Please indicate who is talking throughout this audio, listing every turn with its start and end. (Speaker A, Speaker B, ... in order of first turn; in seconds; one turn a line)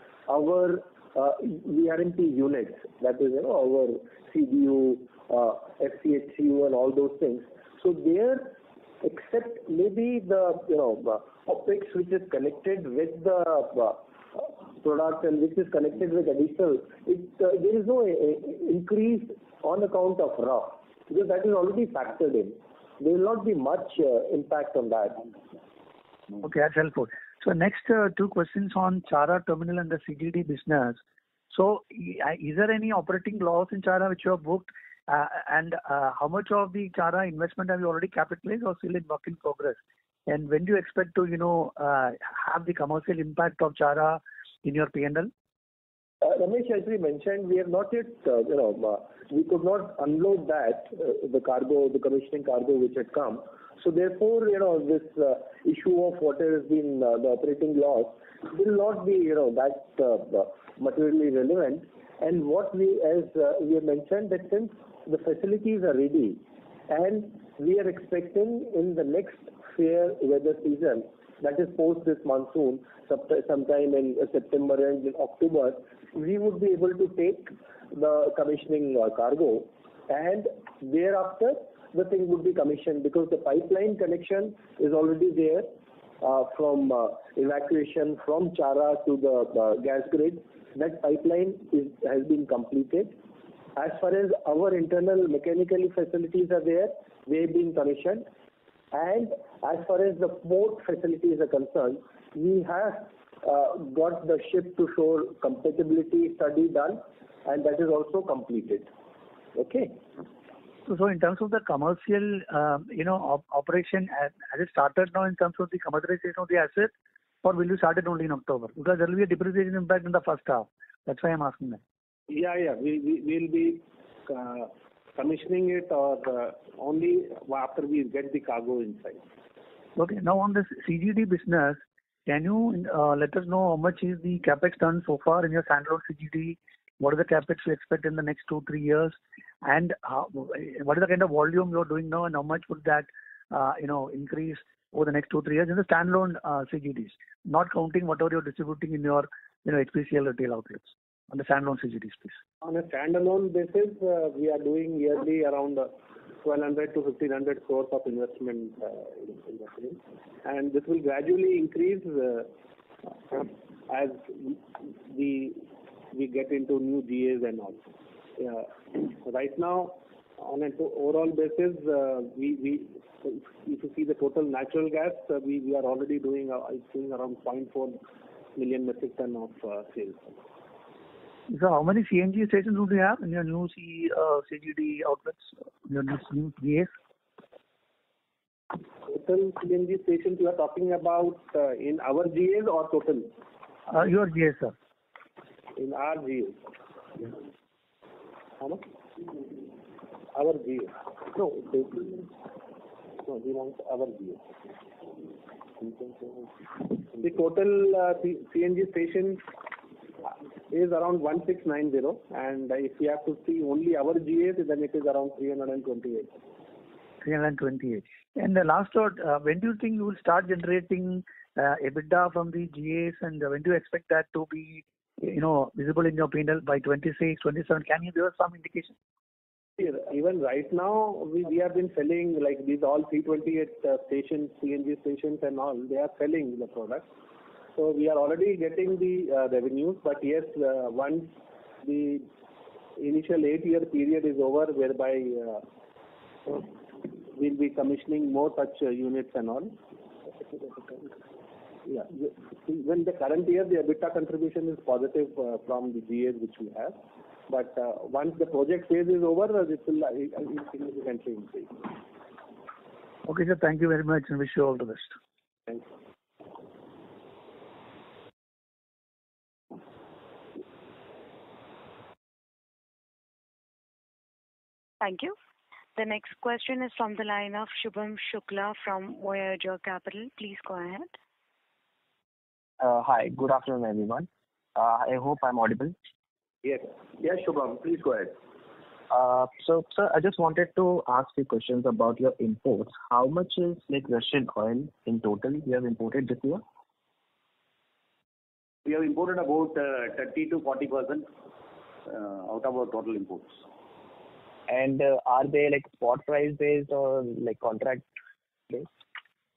Speaker A: 0.3-25.2
Speaker B: 26.4-31.0
Speaker B: 31.5-45.3
Speaker A: 46.2-85.7
Speaker A: 86.2-93.2
Speaker A: 93.8-98.3
Speaker A: 98.9-108.9
Speaker A: 109.6-110.0
Speaker B: 110.9-116.9
Speaker B: 117.4-121.8
Speaker C: 122.3-129.2
Speaker B: 130.0-152.4
Speaker C: 152.6-162.5
Speaker C: 163.3-167.8
Speaker C: 168.4-178.0
Speaker C: 178.6-180.4
Speaker B: 181.5-186.9
Speaker C: 189.1-193.3
Speaker B: 193.9-194.7
Speaker C: 195.8-196.6
Speaker C: 198.6-199.4
Speaker C: 200.3-202.3
Speaker C: 203.2-204.4
Speaker C: 205.8-209.4
Speaker C: 210.2-216.3
Speaker B: 217.2-228.9
Speaker C: 229.8-237.1
Speaker C: 237.8-242.3
Speaker C: 243.0-245.6
Speaker C: 247.3-249.8
Speaker C: 250.4-251.1
Speaker C: 251.9-257.0
Speaker C: 257.5-261.9
Speaker B: 263.2-265.1
Speaker D: 275.0-275.4
Speaker D: 276.0-281.1
Speaker E: 282.8-285.9
Speaker A: 286.6-288.3
Speaker E: 289.1-296.6
Speaker F: 298.9-301.3
Speaker F: 302.1-303.6
Speaker E: 304.7-308.1